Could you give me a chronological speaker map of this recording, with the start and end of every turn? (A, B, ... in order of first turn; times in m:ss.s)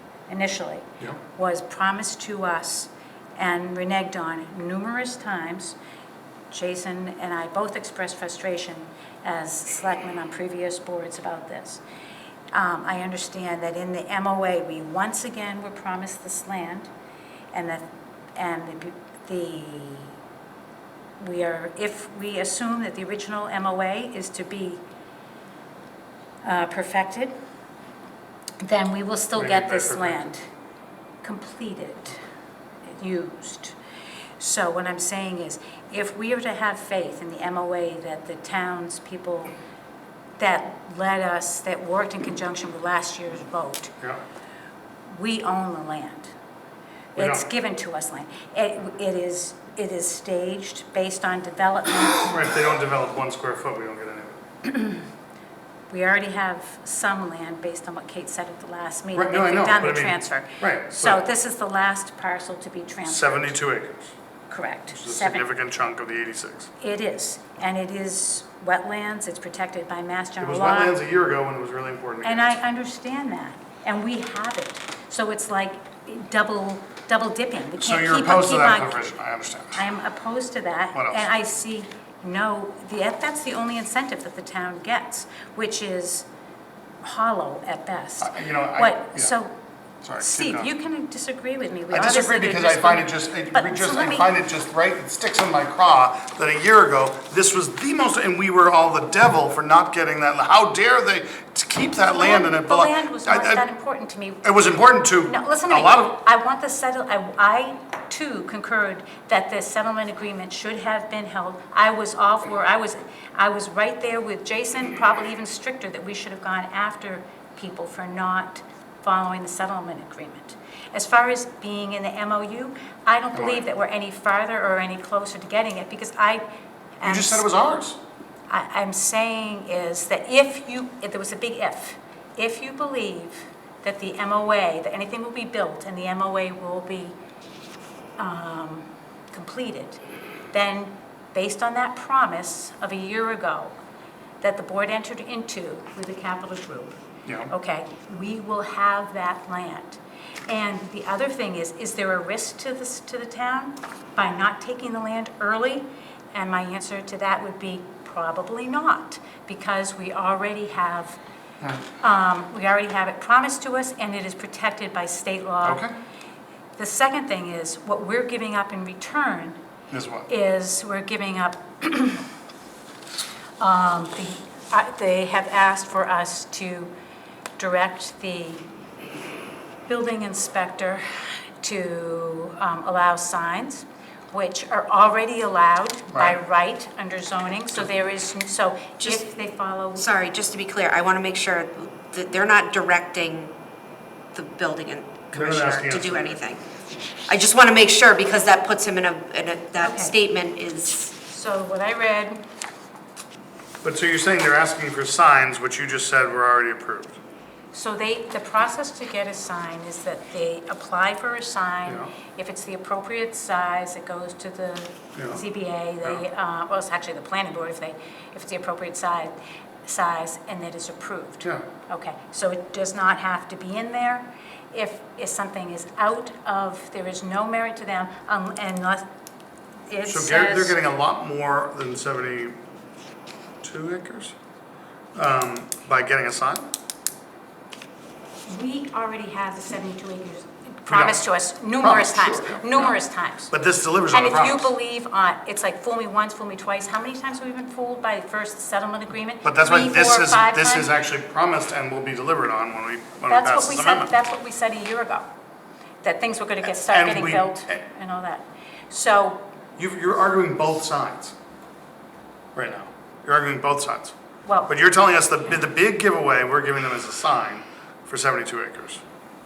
0:00.3-0:05.8 A
0:06.5-0:11.8 A
0:12.5-0:16.9 A
0:17.5-0:20.2 A
0:21.2-0:24.8 A
0:26.4-0:27.3 A
0:28.6-0:30.4 A
0:29.4-0:30.2 B
0:31.2-0:32.2 A
0:32.8-0:33.8 A
0:34.4-0:39.5 A
0:40.4-0:43.9 A
0:45.1-0:46.3 A
0:47.2-0:52.3 A
0:47.2-0:47.5 B
0:52.3-0:54.4 B
0:54.7-0:55.0 A
0:55.9-1:03.6 A
0:59.2-1:01.2 B
1:03.1-1:04.1 B
1:04.5-1:05.4 A
1:04.9-1:06.7 B
1:06.8-1:11.0 A
1:10.4-1:12.5 B
1:12.2-1:19.0 A
1:17.8-1:19.8 B
1:19.8-1:26.3 A
1:21.0-1:21.2 B
1:27.0-1:29.5 A
1:28.2-1:29.3 B
1:30.0-1:30.7 B
1:30.2-1:34.3 A
1:31.9-1:43.7 B
1:42.2-1:44.5 A
1:44.4-1:46.1 B
1:45.3-2:06.4 A
2:03.4-2:03.6 B
2:07.0-2:07.5 A
2:07.0-2:08.0 B
2:08.5-2:17.2 A
2:18.2-2:20.0 A
2:20.5-2:23.8 A
2:24.4-2:41.2 A
2:42.0-2:45.9 A
2:45.6-2:45.9 B
2:46.8-2:49.6 A
2:49.9-2:50.3 B
2:50.3-2:52.3 A
2:53.6-2:56.9 A
2:57.6-2:58.6 A
2:59.9-3:01.0 A
3:01.6-3:10.1 A
3:06.1-3:06.4 B
3:10.0-3:13.5 C
3:14.3-3:16.6 C
3:15.3-3:16.4 B
3:17.3-3:21.1 C
3:19.8-3:20.2 A
3:21.1-3:22.4 A
3:23.8-3:27.2 B
3:27.7-3:49.1 A
3:31.9-3:32.1 B
3:35.2-3:35.4 B
3:49.9-3:50.8 A
3:50.1-3:52.6 B
3:53.6-3:54.4 B
3:55.2-3:56.7 B
3:58.5-4:03.5 A
4:00.9-4:01.2 B
4:01.8-4:03.0 B
4:03.5-4:04.7 B
4:04.1-4:10.9 A
4:09.4-4:14.1 B
4:13.3-4:15.3 A
4:16.0-4:19.4 A
4:16.7-4:17.8 B
4:19.8-4:21.4 B
4:22.6-4:24.2 B
4:24.5-4:24.7 A
4:24.7-4:29.0 B